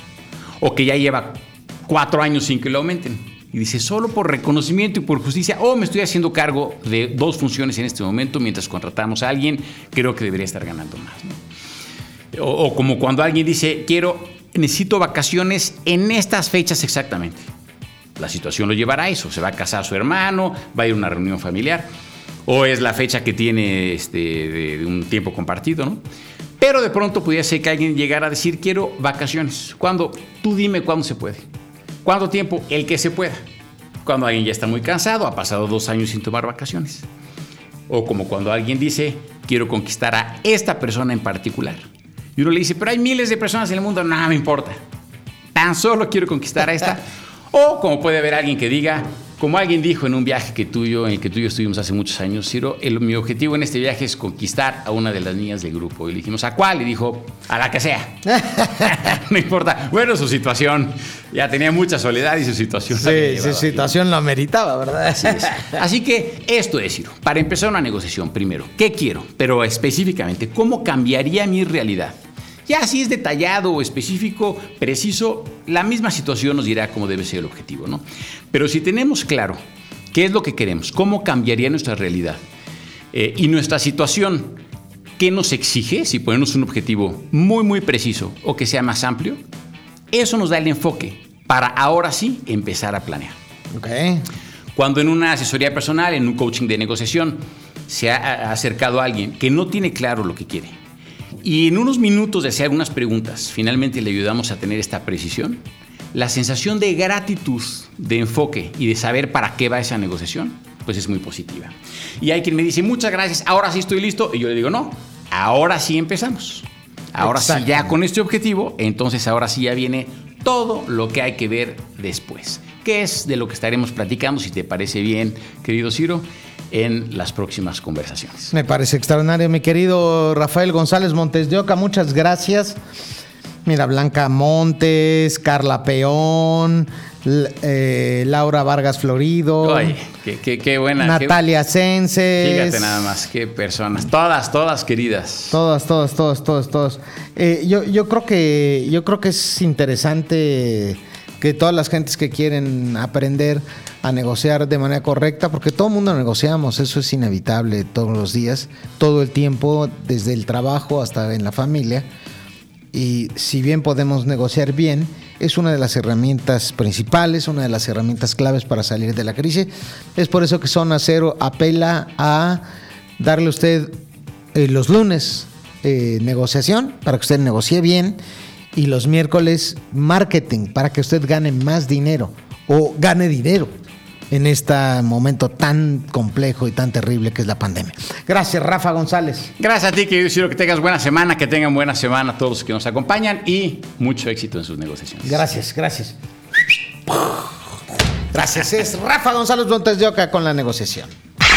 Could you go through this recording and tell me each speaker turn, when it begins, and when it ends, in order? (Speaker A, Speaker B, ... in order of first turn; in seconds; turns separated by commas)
Speaker A: 0.6-11.4, Speaker A: 12.3-17.5, Speaker A: 18.2-21.9, Speaker A: 22.4-26.0, Speaker A: 26.6-31.4, Speaker A: 32.0-33.4, Speaker A: 34.0-37.0, Speaker A: 37.9-41.8, Speaker A: 42.4-44.8, Speaker A: 45.5-58.2, Speaker B: 58.3-59.1, Speaker A: 58.8-63.9, Speaker B: 62.9-65.8, Speaker A: 65.1-79.6, Speaker A: 80.1-82.4, Speaker A: 83.1-84.6, Speaker A: 85.2-89.4, Speaker A: 90.1-93.3, Speaker B: 93.7-94.2, Speaker A: 94.8-100.8, Speaker A: 101.4-128.5, Speaker B: 117.2-117.9, Speaker B: 128.5-132.8, Speaker B: 133.6-139.9, Speaker A: 139.6-141.4, Speaker B: 141.0-143.2, Speaker A: 142.4-145.6, Speaker B: 145.5-162.1, Speaker B: 162.9-172.6, Speaker B: 173.2-174.0, Speaker B: 174.5-178.2, Speaker B: 178.7-183.7, Speaker B: 184.3-189.5, Speaker A: 189.6-195.4, Speaker B: 195.2-196.2, Speaker B: 197.1-197.4, Speaker B: 198.3-201.1